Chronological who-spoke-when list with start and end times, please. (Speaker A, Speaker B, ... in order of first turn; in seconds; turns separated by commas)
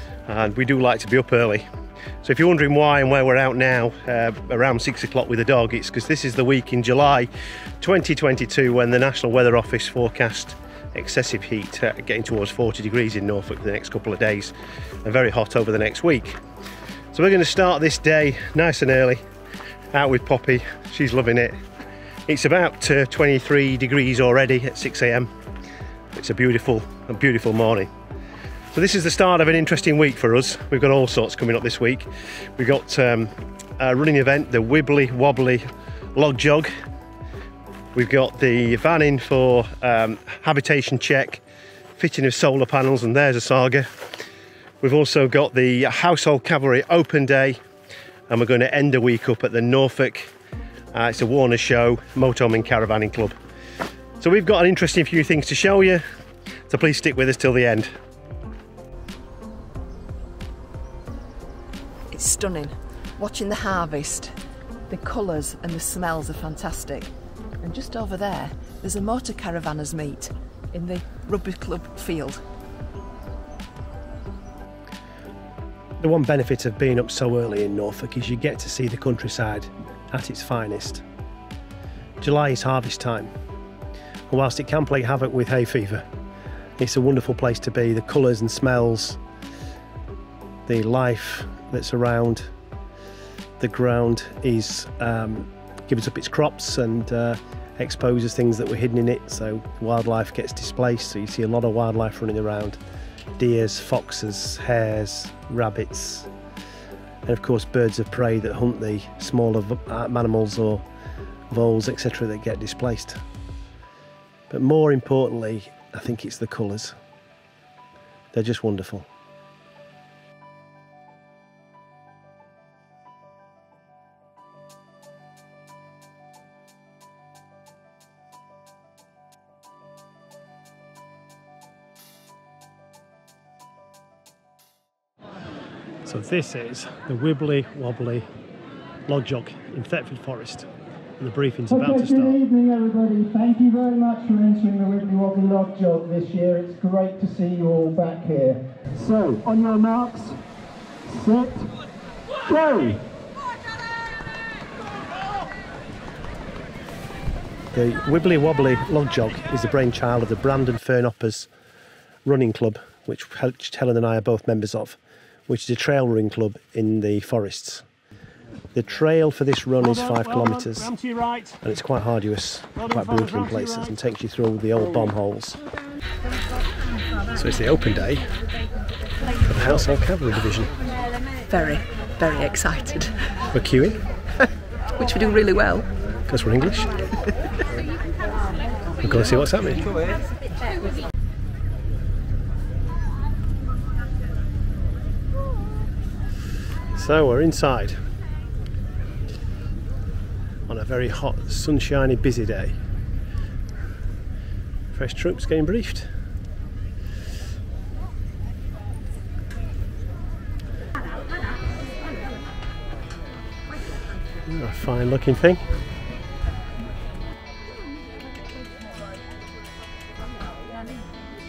Speaker A: 0.3-1.6, Speaker A: 2.2-7.3, Speaker A: 7.8-16.4, Speaker A: 17.1-19.2, Speaker A: 19.9-21.6, Speaker A: 22.3-25.3, Speaker A: 26.1-27.9, Speaker A: 28.7-36.7, Speaker A: 37.9-41.4, Speaker A: 42.0-44.0, Speaker A: 44.8-47.6, Speaker A: 48.3-50.3, Speaker A: 50.9-53.4, Speaker A: 54.2-56.0, Speaker A: 56.7-57.9, Speaker B: 62.1-64.3, Speaker B: 64.9-67.1, Speaker B: 67.6-72.4, Speaker A: 76.0-81.0, Speaker A: 82.2-83.3, Speaker A: 84.3-86.0, Speaker A: 86.8-89.2, Speaker A: 90.7-92.5, Speaker A: 93.6-102.8, Speaker A: 103.4-106.3, Speaker A: 107.2-110.8, Speaker A: 111.5-113.2, Speaker A: 114.5-116.9, Speaker A: 118.3-119.0, Speaker A: 136.0-138.3, Speaker A: 139.1-140.7, Speaker A: 141.2-142.5, Speaker C: 142.4-150.3, Speaker C: 151.2-151.7, Speaker C: 152.6-153.0, Speaker A: 157.7-161.5, Speaker A: 162.2-167.8, Speaker A: 168.7-175.6, Speaker C: 171.0-171.3, Speaker A: 177.3-178.3, Speaker A: 179.4-180.7, Speaker B: 181.5-183.5, Speaker A: 183.5-184.0, Speaker B: 185.0-185.9, Speaker A: 186.3-187.0, Speaker A: 189.0-189.9, Speaker A: 196.9-198.0, Speaker A: 200.7-202.8, Speaker A: 204.9-206.1, Speaker A: 214.4-215.6